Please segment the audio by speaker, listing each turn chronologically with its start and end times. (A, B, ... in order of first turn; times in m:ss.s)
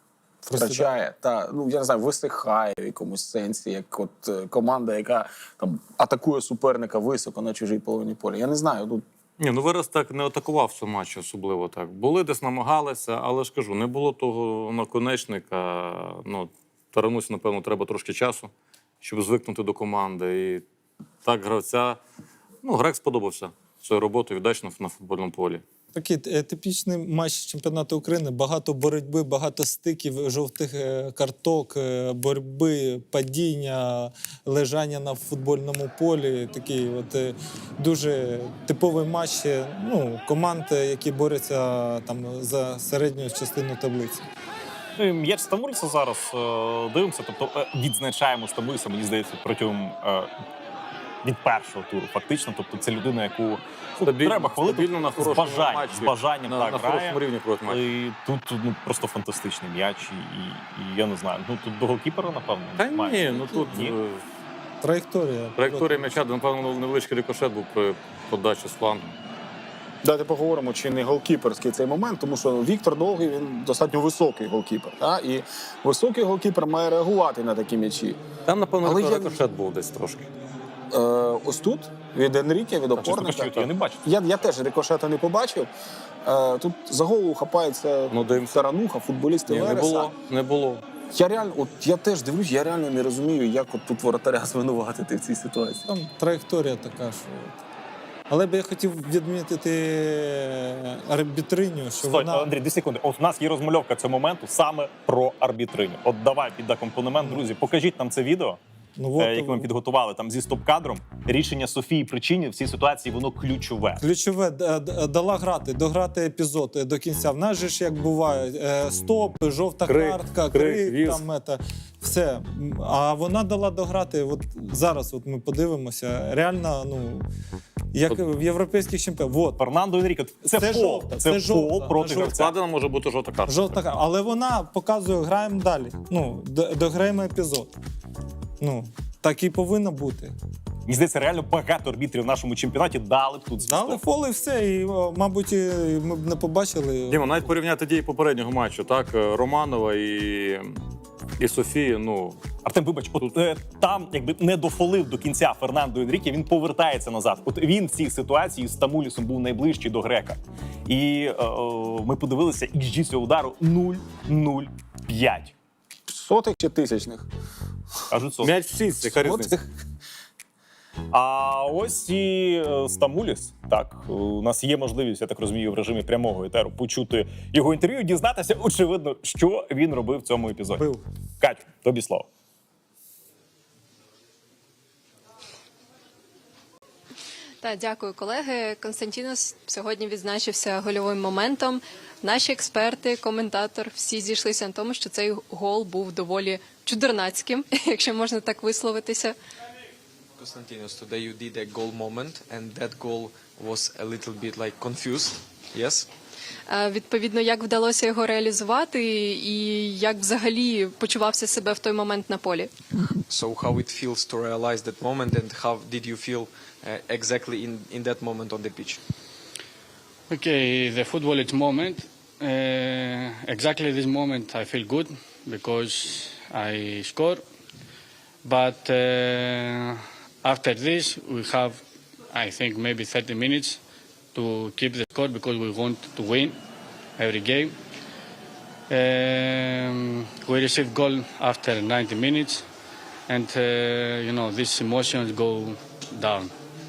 0:00.5-0:09.0 A
0:00.5-0:00.9 B
0:09.4-0:18.5 C
0:19.0-0:20.6 C
0:21.2-0:22.0 C
0:22.6-0:25.6 C
0:25.9-0:44.3 B
0:45.0-0:50.3 D
0:51.2-1:04.0 D
0:54.0-0:57.8 C
1:02.8-1:04.2 C
1:04.8-1:06.2 B
1:05.6-1:09.1 C
1:10.0-1:18.2 A
1:18.5-1:20.3 C
1:18.8-1:19.4 A
1:20.9-1:25.7 A
1:23.0-1:23.7 C
1:23.2-1:24.0 D
1:26.2-1:30.1 A
1:28.1-1:28.6 C
1:29.5-1:30.8 C
1:31.1-1:35.8 A
1:35.9-1:37.6 B
1:38.3-1:42.5 B
1:42.0-1:48.6 D
1:49.0-1:49.7 B
1:49.2-1:54.0 D
1:54.0-2:07.3 B
1:59.9-2:01.2 C
2:07.9-2:09.6 B
2:09.6-2:12.6 D
2:10.6-2:12.4 B
2:12.2-2:13.8 C
2:13.5-2:17.7 B
2:18.6-2:20.3 B
2:20.9-2:24.0 D
2:23.6-2:27.3 B
2:27.1-2:30.8 C
2:31.4-2:32.4 C
2:32.6-2:45.5 D
2:46.1-2:47.3 A
2:48.1-2:48.5 D
2:48.4-2:49.6 C
2:49.1-2:49.6 A
2:51.1-3:00.9 D
3:01.4-3:02.3 D
3:07.6-3:19.3 E
3:20.4-3:26.1 F
3:26.7-3:32.7 E
3:33.3-3:39.0 F
3:40.3-3:47.4 G
3:48.4-3:51.8 G
3:52.3-3:53.8 G
3:54.4-3:56.6 G
3:57.2-3:57.8 G
3:58.9-4:02.7 G
4:03.3-4:06.5 G